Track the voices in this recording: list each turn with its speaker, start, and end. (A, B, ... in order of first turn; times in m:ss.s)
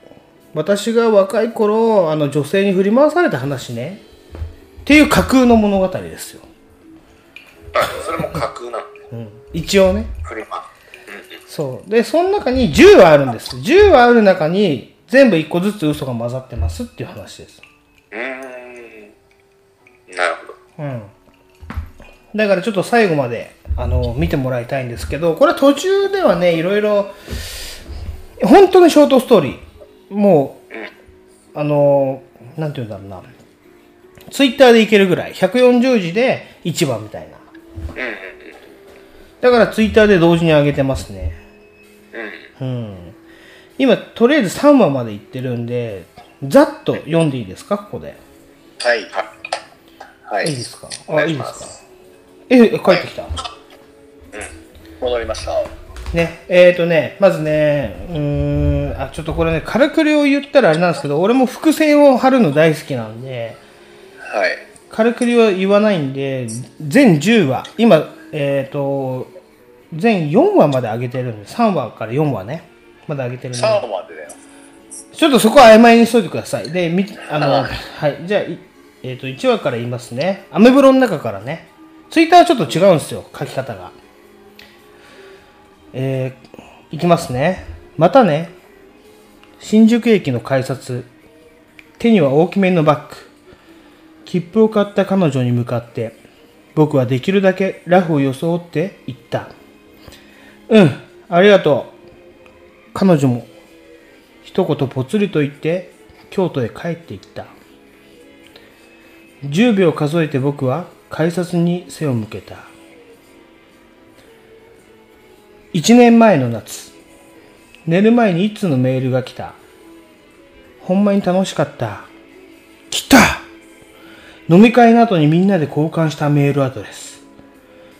0:00.5-0:04.0 A
0:04.8-0:06.4 A
0:07.7-0:08.9 B
0:09.1-0:10.1 A
0:10.2-0:11.4 B
0:11.5-0:17.6 A
0:18.1-0:19.1 B
0:20.1-0:20.6 B
0:20.8-0:21.1 A
0:22.3-0:27.1 A
0:28.4-0:30.6 A
0:31.5-0:33.2 A
0:34.3-0:37.4 A
0:38.0-0:38.6 B
0:39.4-0:41.4 A
0:42.1-0:42.5 B
0:42.6-0:43.1 A
0:43.8-0:48.2 A
0:48.8-0:49.1 C
0:50.3-0:50.6 C
0:50.4-0:51.8 A
0:51.1-0:51.6 B
0:52.5-0:53.3 A
0:55.0-0:55.7 C
0:56.1-1:03.6 A
1:04.2-1:04.6 C
1:04.9-1:09.3 A
1:09.9-1:13.8 A
1:13.5-1:14.4 C
1:15.1-1:23.9 A
1:17.4-1:17.7 C
1:25.9-1:28.5 A
1:29.6-1:31.1 A
1:32.0-1:33.3 A
1:34.2-1:36.2 A
1:36.7-1:39.5 A
1:40.7-1:41.9 A
1:42.9-1:43.5 A
1:44.4-1:47.5 A
1:49.4-1:52.7 A
1:55.7-1:56.9 A
1:57.8-1:59.6 A
2:00.8-2:02.1 A
2:02.9-2:03.4 A
2:04.5-2:07.2 A